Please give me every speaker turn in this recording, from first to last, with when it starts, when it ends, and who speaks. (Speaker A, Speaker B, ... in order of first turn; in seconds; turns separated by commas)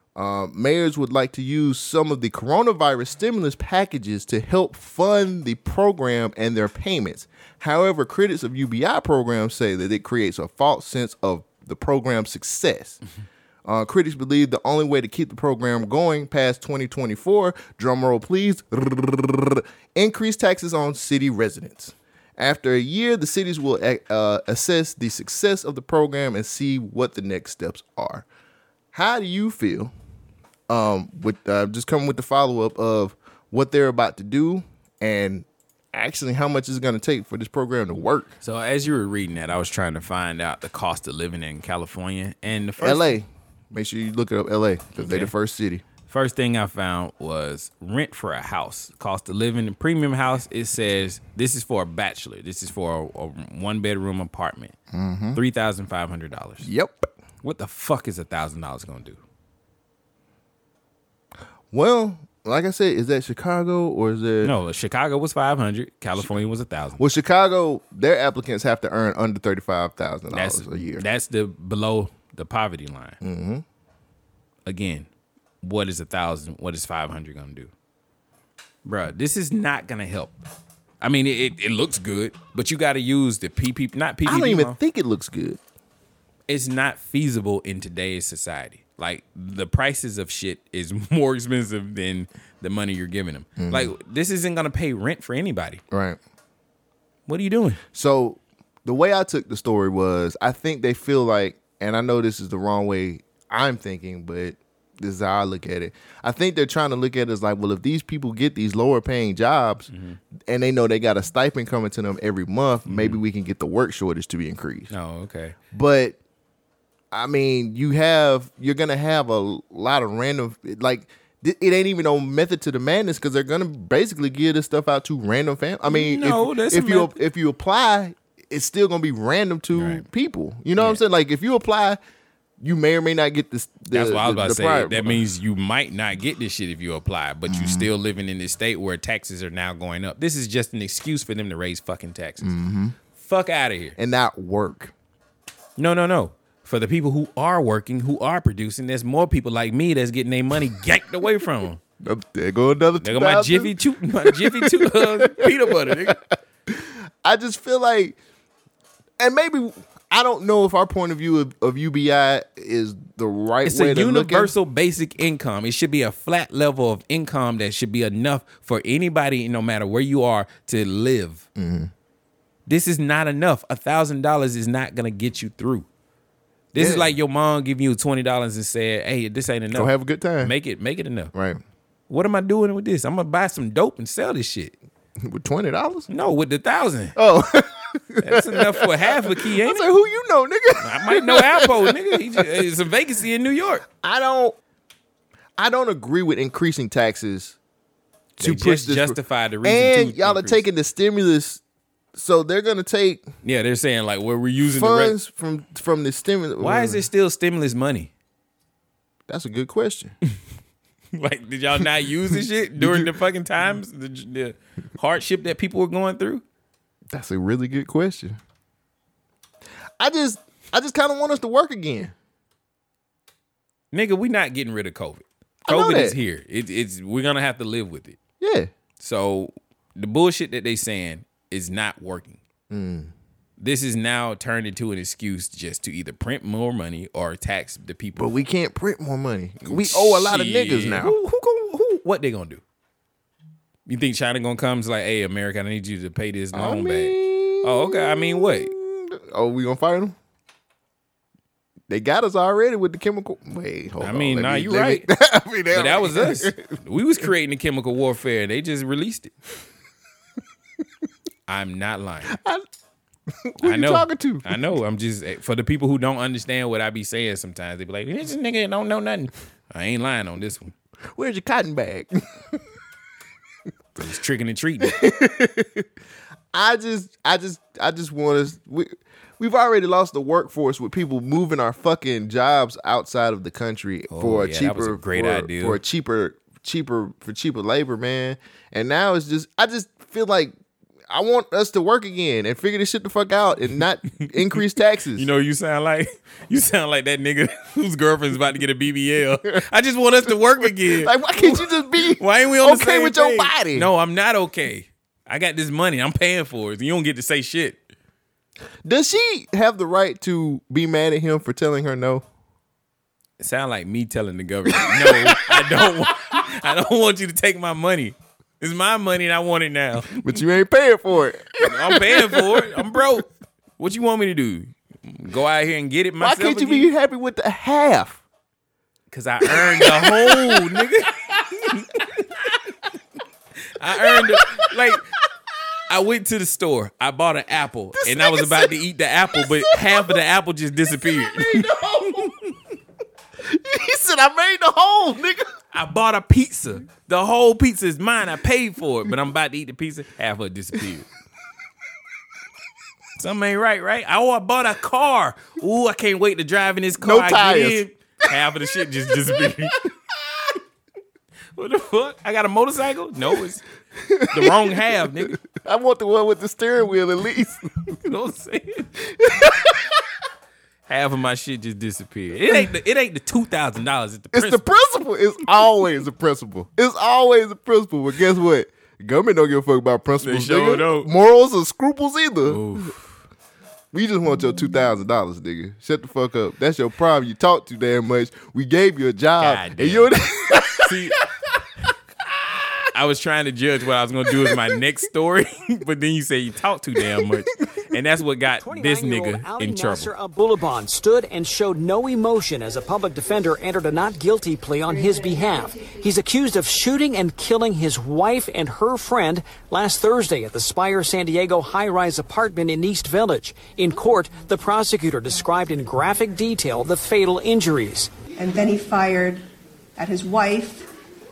Speaker A: 0.2-13.0, Speaker A: 13.7-28.3, Speaker A: 28.9-29.9, Speaker A: 30.7-38.3, Speaker B: 38.4-43.2, Speaker A: 42.8-45.8, Speaker B: 45.0-45.3, Speaker B: 46.1-54.8, Speaker A: 54.9-55.4, Speaker B: 55.4-56.7, Speaker A: 56.6-57.1, Speaker B: 57.4-59.2, Speaker A: 61.7-64.5, Speaker B: 64.4-67.0, Speaker A: 67.0-71.0, Speaker B: 70.3-73.2, Speaker A: 73.2-73.6, Speaker B: 74.7-75.1, Speaker B: 75.6-77.7, Speaker B: 78.8-80.4, Speaker B: 81.0-84.8, Speaker A: 84.2-85.6, Speaker B: 86.5-95.8, Speaker A: 93.6-93.9, Speaker A: 95.9-96.2, Speaker B: 97.3-97.8, Speaker A: 97.9-109.9, Speaker B: 109.9-110.2, Speaker A: 110.5-114.9, Speaker B: 112.9-113.2, Speaker B: 114.9-115.6, Speaker A: 115.7-116.2, Speaker A: 117.1-132.0, Speaker B: 125.9-127.2, Speaker B: 129.7-130.1, Speaker B: 130.8-131.0, Speaker A: 132.6-135.2, Speaker B: 133.9-142.5, Speaker A: 137.5-137.9, Speaker A: 142.4-143.0, Speaker B: 143.2-143.9, Speaker A: 144.0-144.9, Speaker B: 145.8-151.8, Speaker A: 152.0-158.2, Speaker B: 153.0-156.2, Speaker A: 159.2-164.5, Speaker B: 163.7-171.4, Speaker A: 171.6-171.9, Speaker B: 172.7-175.9, Speaker B: 176.7-181.3, Speaker A: 176.8-177.1, Speaker A: 179.7-180.5, Speaker A: 181.3-181.6, Speaker B: 182.1-184.8, Speaker A: 185.2-186.1, Speaker B: 186.1-187.2, Speaker A: 187.2-192.5, Speaker B: 188.2-189.9, Speaker B: 190.8-193.9, Speaker A: 194.0-194.6, Speaker A: 195.6-197.6, Speaker A: 198.4-201.6, Speaker B: 198.4-200.6, Speaker A: 202.1-203.3, Speaker B: 203.4-205.2, Speaker A: 204.7-207.0, Speaker B: 206.6-208.1, Speaker A: 209.3-210.2, Speaker B: 211.1-216.4, Speaker A: 212.8-213.2, Speaker A: 217.1-218.4, Speaker A: 220.0-222.1, Speaker B: 223.9-228.2, Speaker A: 225.7-226.2, Speaker A: 228.4-228.7, Speaker B: 229.0-232.4, Speaker A: 232.7-233.1, Speaker B: 233.6-238.3, Speaker A: 238.2-241.2, Speaker B: 239.6-242.6, Speaker B: 243.9-248.7, Speaker A: 246.5-250.2, Speaker A: 251.9-256.8, Speaker B: 254.0-255.1, Speaker B: 255.7-259.3, Speaker B: 261.5-262.4, Speaker A: 262.3-262.6, Speaker A: 263.4-264.6, Speaker B: 263.6-270.7, Speaker A: 271.1-272.6, Speaker B: 274.0-275.0, Speaker A: 274.8-275.9, Speaker A: 276.5-290.5, Speaker B: 284.1-285.8, Speaker A: 291.1-295.3, Speaker B: 295.1-307.8, Speaker A: 300.8-303.9, Speaker A: 308.8-312.2, Speaker B: 313.4-320.4, Speaker A: 314.7-316.4, Speaker A: 320.1-323.0, Speaker B: 321.6-323.3, Speaker B: 323.8-326.9, Speaker A: 326.2-328.2, Speaker B: 329.1-332.1, Speaker A: 329.5-331.1, Speaker B: 333.8-335.1, Speaker A: 334.0-335.0, Speaker B: 335.9-342.5, Speaker A: 338.0-338.8, Speaker A: 339.3-340.2, Speaker A: 341.0-342.4, Speaker A: 343.4-345.5, Speaker B: 345.7-351.1, Speaker B: 353.2-359.9, Speaker A: 357.0-357.8, Speaker B: 361.6-363.6, Speaker A: 364.0-367.8, Speaker B: 364.3-365.4, Speaker B: 367.9-368.9, Speaker A: 369.0-370.0, Speaker B: 370.9-374.6, Speaker A: 374.3-382.9, Speaker B: 380.2-381.1, Speaker B: 382.5-383.2, Speaker A: 383.9-391.0, Speaker B: 389.4-391.2, Speaker B: 392.9-400.1, Speaker A: 394.4-394.7, Speaker A: 397.0-397.3, Speaker C: 398.6-418.1, Speaker D: 418.4-419.4, Speaker D: 420.0-420.9